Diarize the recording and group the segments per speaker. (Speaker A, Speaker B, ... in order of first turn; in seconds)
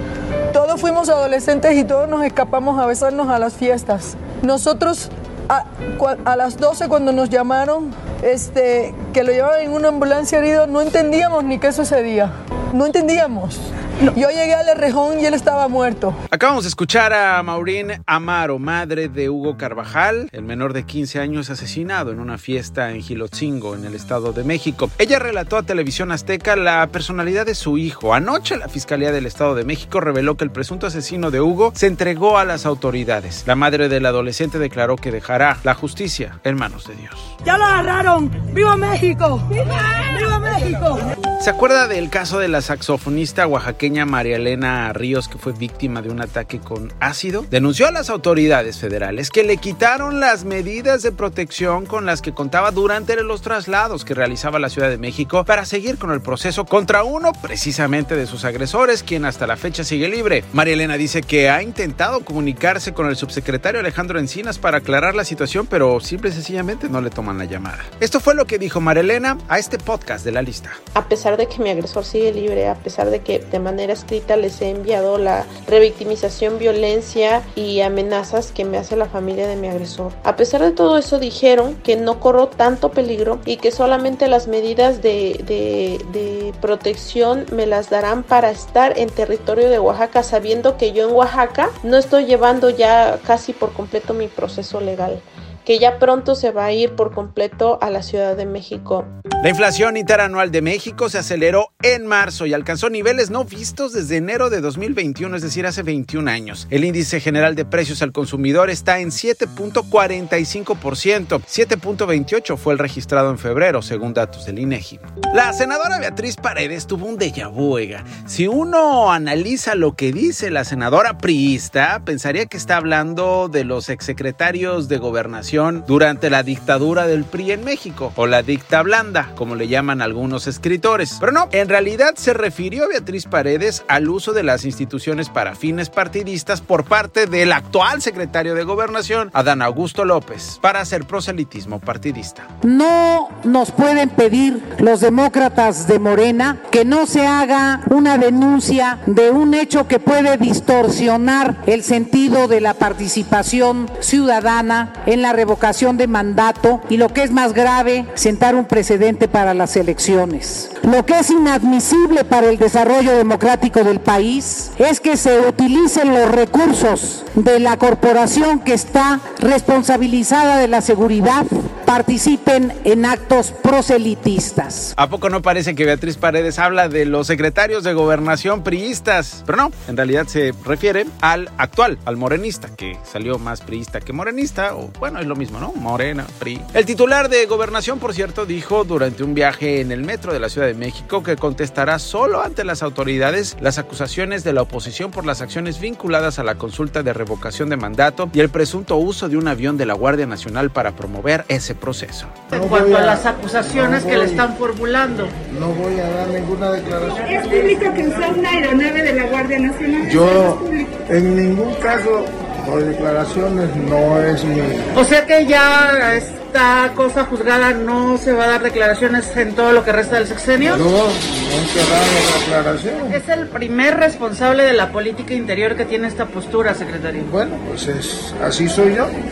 Speaker A: 0.5-16.1, 37.5-41.0
Speaker B: 16.3-37.3, 41.4-70.8, 99.4-142.5, 175.0-202.3
Speaker C: 70.9-99.1
Speaker D: 142.6-174.9
Speaker E: 202.5-204.5, 205.5-207.8, 210.0-214.9, 220.6-223.2, 227.3-229.1
Speaker F: 202.5-205.3, 215.0-220.8, 223.2-227.2
Speaker G: 202.7-203.2, 203.7-204.3, 207.2-210.8